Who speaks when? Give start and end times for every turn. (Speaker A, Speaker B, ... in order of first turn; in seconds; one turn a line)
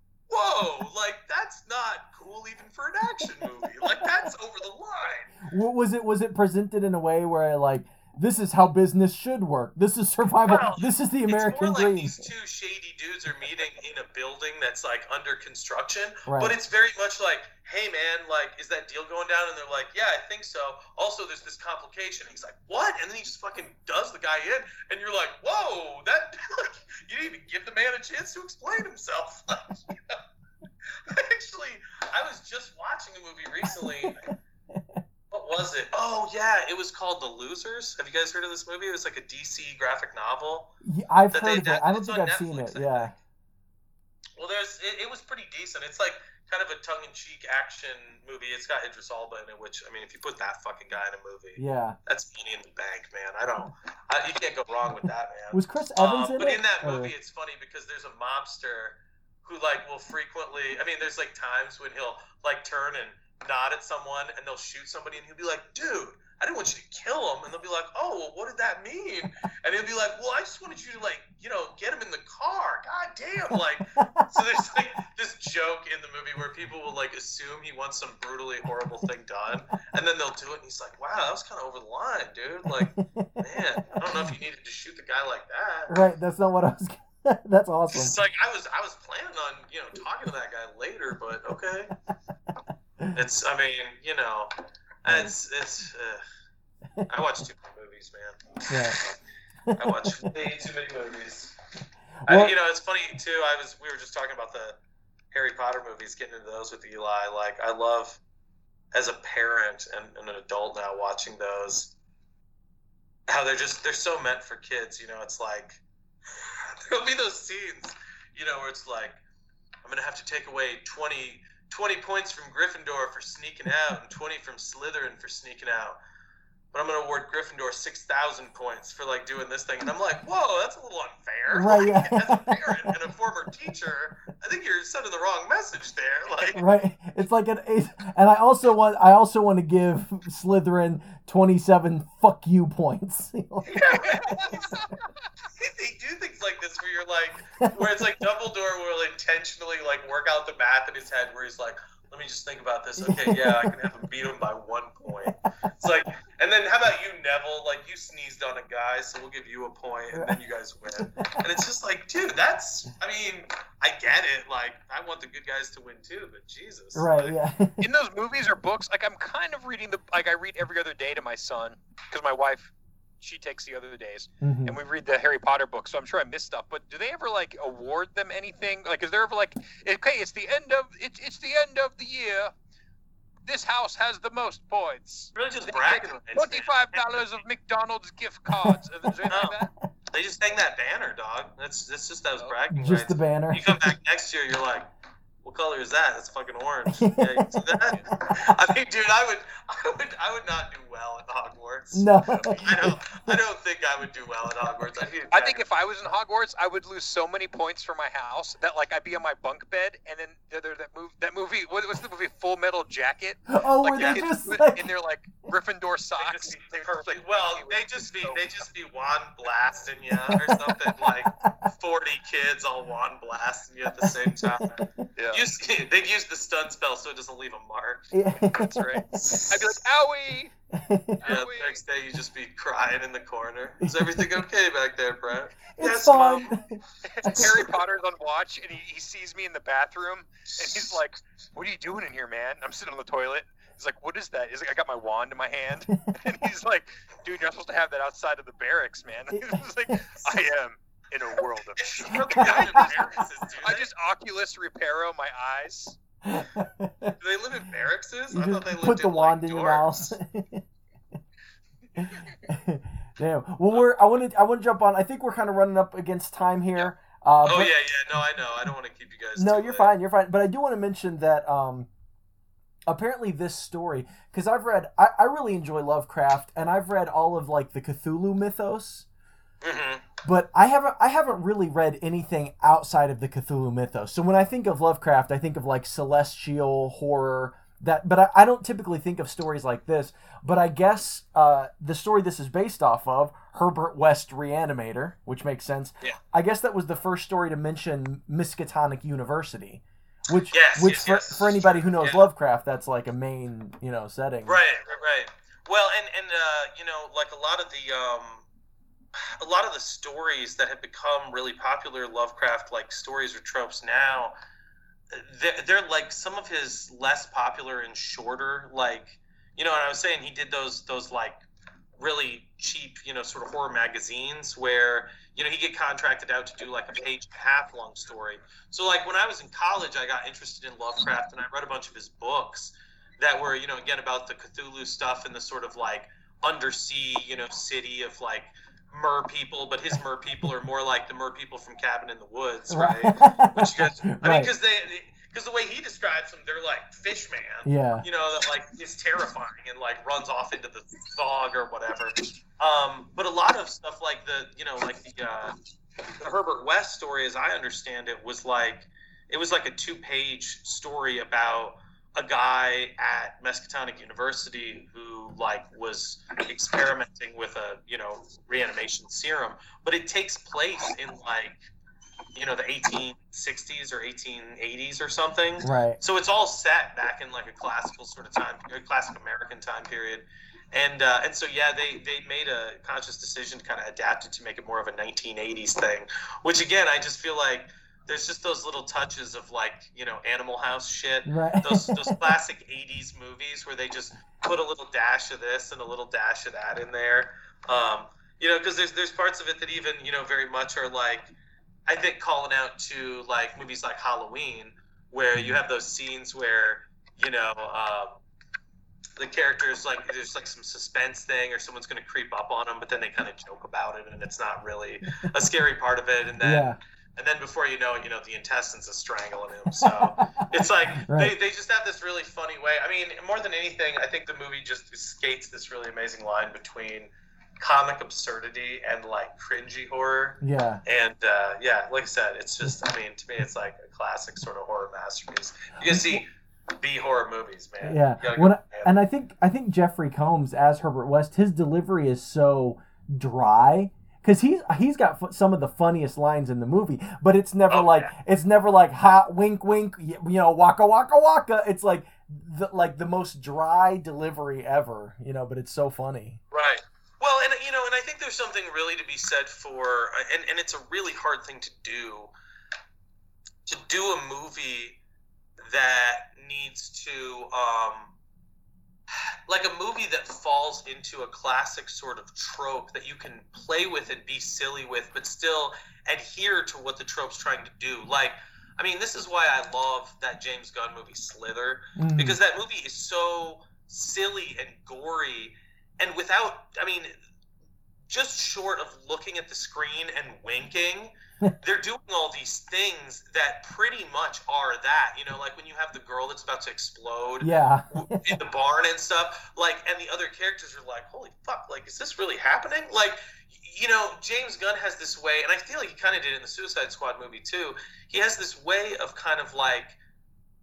Speaker A: 0.3-5.4
Speaker B: 3.8-4.3
Speaker B: 5.4-12.2
Speaker A: 10.4-30.2
Speaker B: 16.3-16.6
Speaker A: 31.1-34.3
Speaker B: 34.7-35.0
Speaker A: 35.3-40.7
Speaker B: 40.8-43.1
Speaker A: 41.3-43.1
Speaker A: 44.4-86.0
Speaker B: 51.6-52.0
Speaker B: 55.5-57.1
Speaker B: 74.0-74.4
Speaker B: 82.8-84.3
Speaker B: 85.9-88.1
Speaker A: 87.9-92.0
Speaker A: 93.1-94.5
Speaker A: 95.0-96.2
Speaker B: 95.1-95.3
Speaker A: 97.1-99.1
Speaker B: 98.7-99.0
Speaker B: 99.7-100.3
Speaker A: 99.7-101.5
Speaker B: 102.2-102.5
Speaker A: 102.3-104.8
Speaker A: 105.3-108.2
Speaker A: 108.9-111.9
Speaker A: 113.3-119.2
Speaker A: 119.8-126.0
Speaker A: 126.7-136.6
Speaker B: 131.5-132.9
Speaker B: 136.5-143.8
Speaker C: 143.7-144.9
Speaker A: 143.8-144.8
Speaker A: 145.6-167.3
Speaker B: 147.6-147.9
Speaker B: 153.0-153.7
Speaker B: 160.1-160.4
Speaker B: 161.0-161.5
Speaker B: 166.9-167.8
Speaker C: 167.8-182.5
Speaker B: 174.4-174.8
Speaker C: 183.4-189.7
Speaker A: 185.3-187.2
Speaker B: 188.5-189.3
Speaker A: 189.3-189.6
Speaker A: 190.1-194.9
Speaker B: 192.7-193.9
Speaker A: 195.4-205.6
Speaker B: 196.9-197.8
Speaker B: 201.9-203.4
Speaker C: 202.3-202.6
Speaker C: 205.3-218.4
Speaker B: 213.5-214.9
Speaker A: 214.0-214.3
Speaker A: 216.2-228.1
Speaker B: 220.3-221.5
Speaker B: 224.0-224.8
Speaker C: 225.2-225.4
Speaker B: 228.1-229.1
Speaker C: 228.5-230.5
Speaker A: 229.1-229.8
Speaker B: 230.7-231.2
Speaker C: 231.2-231.8
Speaker A: 231.2-236.6
Speaker B: 233.8-234.2
Speaker B: 235.7-237.7
Speaker C: 237.1-256.0
Speaker A: 237.2-237.7
Speaker A: 240.5-241.0
Speaker B: 249.3-250.0
Speaker A: 251.8-253.9
Speaker B: 252.3-252.8
Speaker B: 256.2-257.1
Speaker A: 257.1-260.1
Speaker B: 258.3-260.6
Speaker B: 262.0-267.7
Speaker A: 267.4-269.9
Speaker B: 269.4-271.9
Speaker B: 272.9-279.1
Speaker A: 279.6-280.1
Speaker B: 280.2-304.6
Speaker A: 300.5-302.3
Speaker A: 304.4-308.4
Speaker A: 309.1-314.4
Speaker A: 315.1-321.4
Speaker A: 322.0-355.6
Speaker B: 342.7-344.5
Speaker B: 347.6-348.1
Speaker A: 356.2-371.6
Speaker A: 372.4-401.3
Speaker B: 375.6-376.0
Speaker B: 391.3-392.4
Speaker A: 401.9-408.2
Speaker B: 405.4-405.6
Speaker A: 409.2-438.9
Speaker B: 416.4-416.8
Speaker B: 419.8-420.2
Speaker B: 420.9-421.3
Speaker B: 430.4-430.8
Speaker B: 435.9-436.2
Speaker B: 437.8-456.4
Speaker A: 447.7-448.1
Speaker A: 456.5-462.3
Speaker A: 463.6-465.0
Speaker A: 465.7-468.1
Speaker A: 469.5-487.1
Speaker B: 482.0-482.4
Speaker A: 488.1-510.0
Speaker B: 497.4-498.4